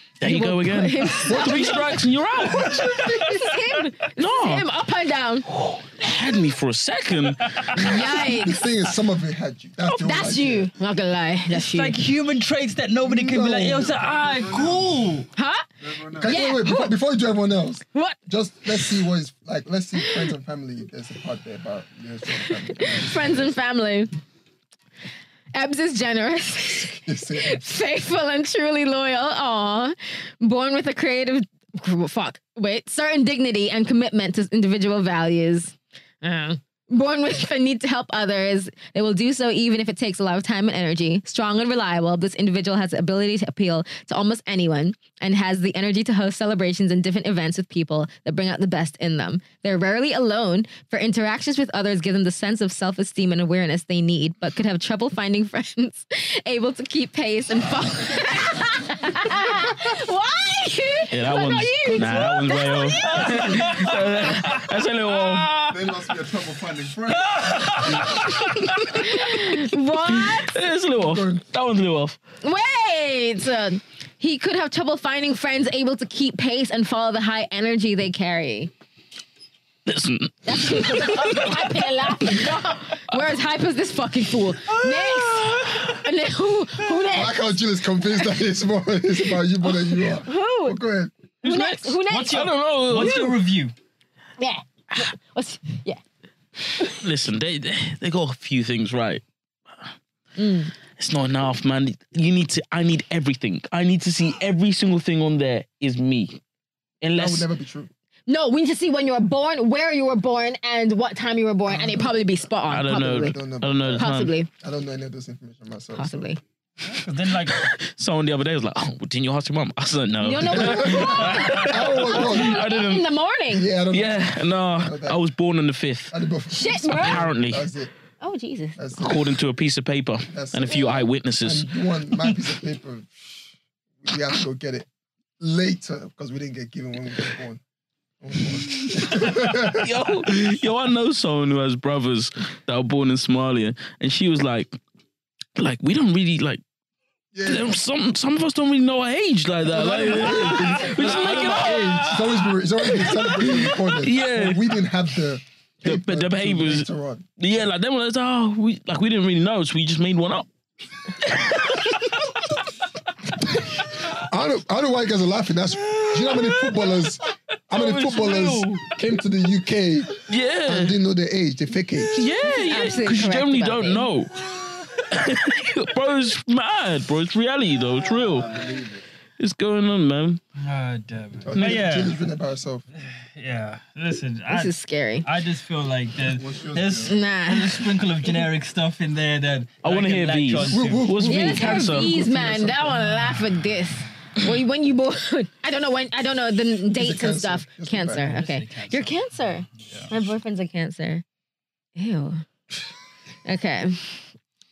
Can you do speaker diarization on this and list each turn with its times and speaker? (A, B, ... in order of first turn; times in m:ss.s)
0:00.2-0:02.1 A
0:00.2-0:02.8 B
0:01.2-0:01.9 C
0:02.4-0:03.6 D
0:02.5-0:03.2 C
0:02.6-0:05.5 A
0:04.2-0:04.6 B
0:05.5-0:07.7 B
0:07.5-0:08.0 D
0:07.7-0:10.7 C
0:07.7-0:08.6 A
0:09.9-0:12.0 A
0:11.5-0:15.3 D
0:13.0-0:13.9 C
0:13.9-0:15.1 E
0:15.4-0:15.7 A
0:15.8-0:16.4 E
0:16.2-0:23.5 C
0:16.2-0:17.0 A
0:18.7-0:19.0 A
0:20.0-0:20.3 A
0:22.4-0:24.1 A
0:25.5-1:03.8 A
0:27.0-0:27.6 C
1:01.1-1:05.6 B
1:03.0-1:05.7 D
1:05.6-1:08.4 E
1:07.1-1:08.7 D
1:08.1-1:12.2 B
1:08.2-1:10.6 A
1:11.0-1:11.4 C
1:12.4-1:18.7 A
1:19.9-1:22.6 B
1:20.4-1:27.6 A
1:24.8-1:25.9 D
1:27.1-1:31.1 C
1:29.7-1:30.8 A
1:31.4-1:33.2 A
1:31.4-1:33.4 B
1:32.1-1:33.7 D
1:34.4-1:36.0 A
1:36.9-1:39.2 B
1:40.4-1:40.7 A
1:40.9-1:46.4 B
1:47.0-1:47.4 B
1:47.1-1:47.9 C
1:48.3-1:54.5 A
1:51.7-1:52.1 C
1:52.7-1:54.3 B
1:53.0-1:56.3 C
1:56.0-1:56.4 A
1:56.8-1:57.7 D
1:57.5-2:03.0 B
2:00.2-2:03.7 A
2:00.4-2:02.6 C
2:03.5-2:05.2 C
2:03.9-2:06.2 B
2:06.1-2:07.9 C
2:06.5-2:07.2 A
2:06.9-2:07.7 B
2:08.2-2:08.8 A
2:08.8-2:09.4 C
2:09.0-2:11.7 B
2:10.3-2:13.5 C
2:14.0-2:14.9 C
2:15.4-2:17.6 C
2:18.2-2:19.9 C
2:18.7-2:24.8 B
2:25.6-2:26.6 B
2:27.3-2:27.8 C
2:27.4-2:34.7 B
2:29.7-2:37.2 C
2:30.2-2:32.2 D
2:35.8-2:36.9 B
2:37.4-2:40.5 B
2:41.2-2:42.2 B
2:43.6-2:52.2 C
2:47.7-2:48.9 B
2:50.3-2:51.0 B
2:52.1-2:58.7 B
2:52.2-2:54.1 A
2:58.2-2:59.0 E
2:59.4-3:00.4 B
3:00.6-3:02.2 D
3:01.5-3:02.8 C
3:01.6-3:01.8 B
3:02.9-3:04.7 D
3:04.5-3:05.3 A
3:05.2-3:11.1 D
3:06.3-3:07.2 E
3:07.0-3:08.4 A
3:09.8-3:12.1 B
3:10.7-3:13.0 C
3:11.2-3:21.2 A
3:16.9-3:18.3 C
3:18.2-3:19.2 D
3:19.8-3:20.1 D
3:22.0-3:22.4 A
3:23.4-3:24.2 A